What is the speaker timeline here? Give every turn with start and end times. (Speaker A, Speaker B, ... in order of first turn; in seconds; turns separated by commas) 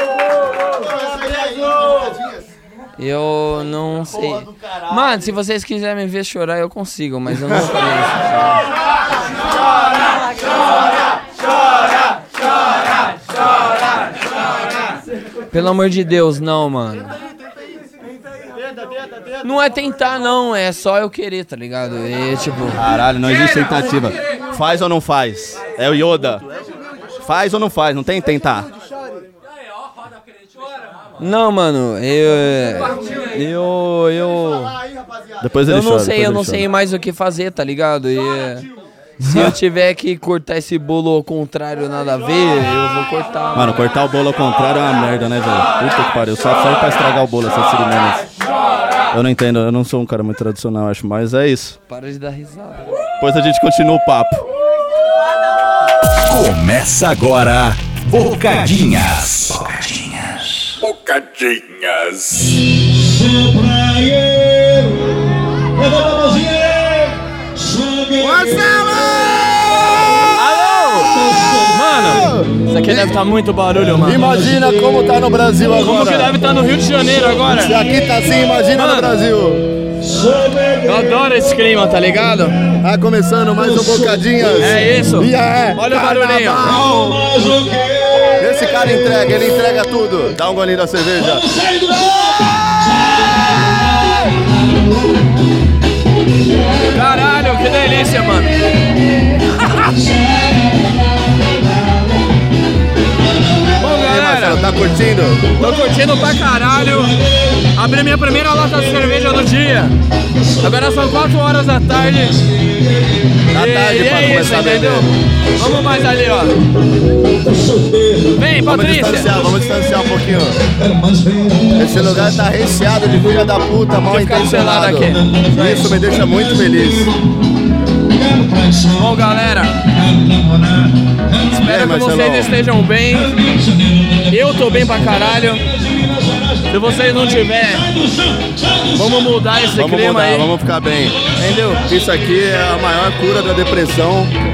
Speaker A: 3.0-8.2, Speaker A: 15.5-17.1, Speaker A: 19.4-22.8, Speaker B: 22.7-26.4, Speaker B: 27.2-28.7, Speaker A: 31.2-34.8, Speaker B: 35.4-36.6, Speaker A: 35.7-38.7, Speaker B: 39.2-39.6, Speaker A: 39.2-43.9, Speaker B: 43.5-48.2, Speaker B: 49.1-51.8, Speaker A: 51.9-53.0, Speaker B: 53.2-54.5, Speaker C: 56.1-62.6, Speaker B: 68.1-70.3, Speaker A: 70.3-71.1, Speaker A: 71.7-74.3, Speaker B: 72.0-73.2, Speaker B: 74.0-76.4, Speaker A: 75.8-77.8, Speaker B: 77.4-79.7, Speaker A: 78.7-79.2, Speaker A: 80.8-82.6, Speaker B: 82.8-87.5, Speaker A: 84.6-86.8, Speaker B: 88.4-91.5, Speaker A: 96.9-98.5, Speaker A: 103.8-104.6, Speaker B: 103.8-105.6, Speaker A: 105.6-107.1, Speaker A: 107.8-110.0, Speaker A: 110.6-112.4, Speaker B: 113.5-115.1, Speaker A: 113.5-116.6, Speaker A: 118.3-119.4, Speaker B: 118.6-120.6, Speaker B: 121.7-127.1, Speaker A: 124.0-125.9, Speaker A: 128.9-129.8, Speaker A: 131.4-133.6, Speaker B: 131.6-132.5, Speaker A: 134.3-135.6, Speaker A: 136.7-137.9, Speaker A: 138.9-140.5, Speaker B: 139.7-141.2, Speaker A: 141.4-141.8, Speaker B: 141.8-144.3